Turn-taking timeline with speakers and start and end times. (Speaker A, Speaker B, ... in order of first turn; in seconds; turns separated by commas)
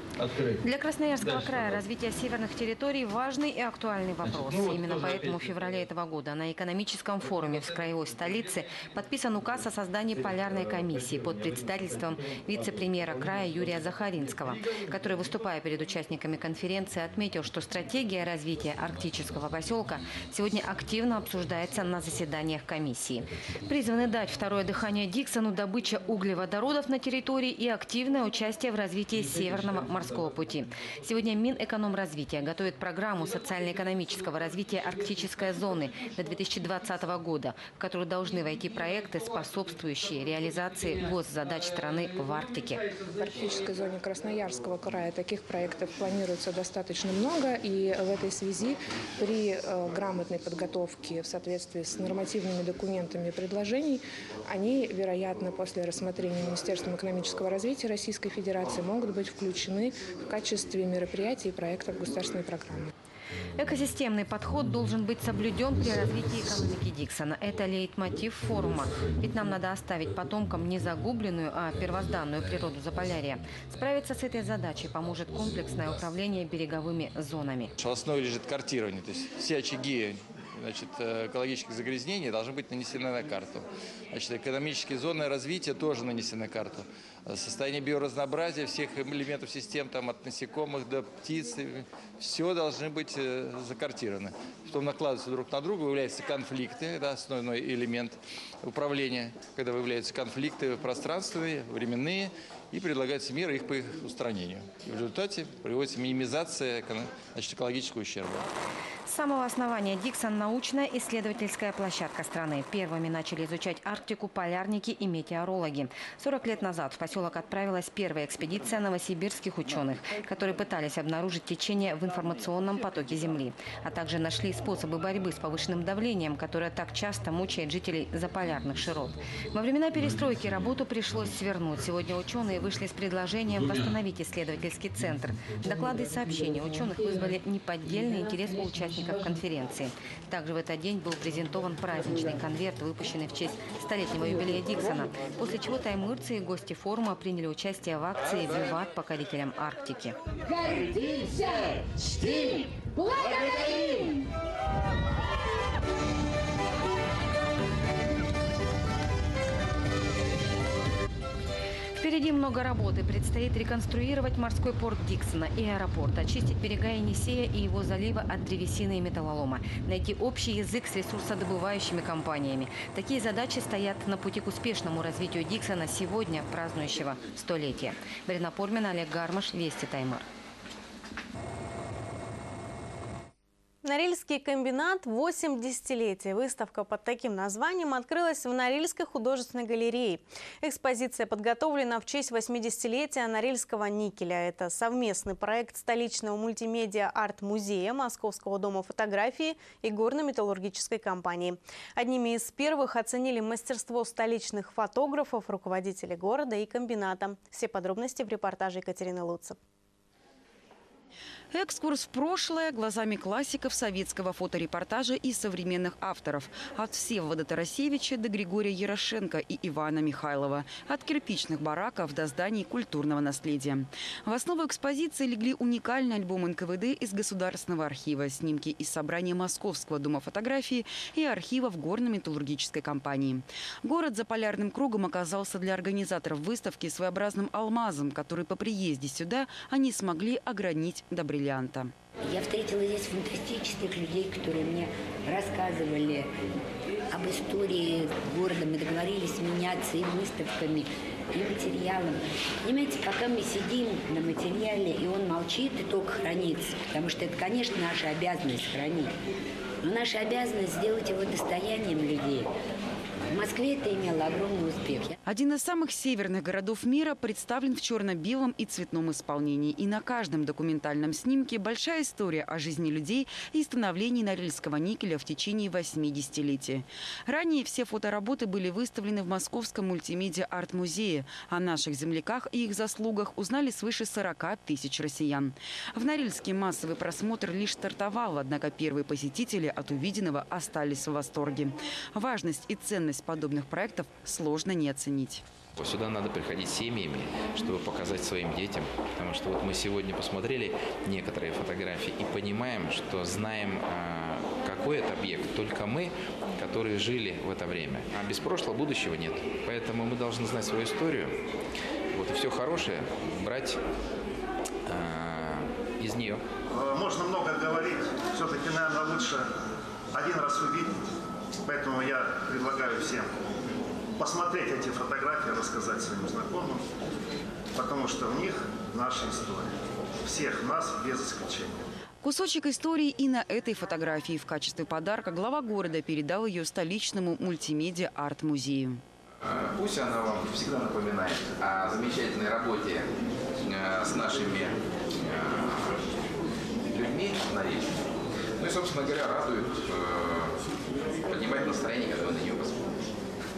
Speaker A: 0.6-42.8, Speaker B: 43.2-62.9, Speaker A: 63.5-77.7, Speaker C: 77.8-108.5, Speaker A: 109.1-150.2, Speaker A: 162.0-180.2, Speaker D: 183.8-209.6, Speaker E: 211.5-241.9, Speaker F: 242.3-246.3, Speaker F: 247.1-259.1, Speaker F: 259.8-262.5, Speaker F: 263.3-265.1, Speaker E: 265.3-295.4, Speaker G: 295.8-311.3, Speaker G: 312.1-313.8, Speaker G: 314.9-316.4, Speaker H: 316.7-319.5, Speaker H: 320.1-321.1, Speaker H: 321.6-323.3, Speaker H: 324.2-326.8, Speaker H: 327.8-331.8, Speaker E: 332.2-339.0, Speaker G: 339.4-343.1, Speaker G: 343.6-346.1, Speaker G: 346.9-347.9, Speaker G: 348.6-350.6, Speaker G: 351.3-352.8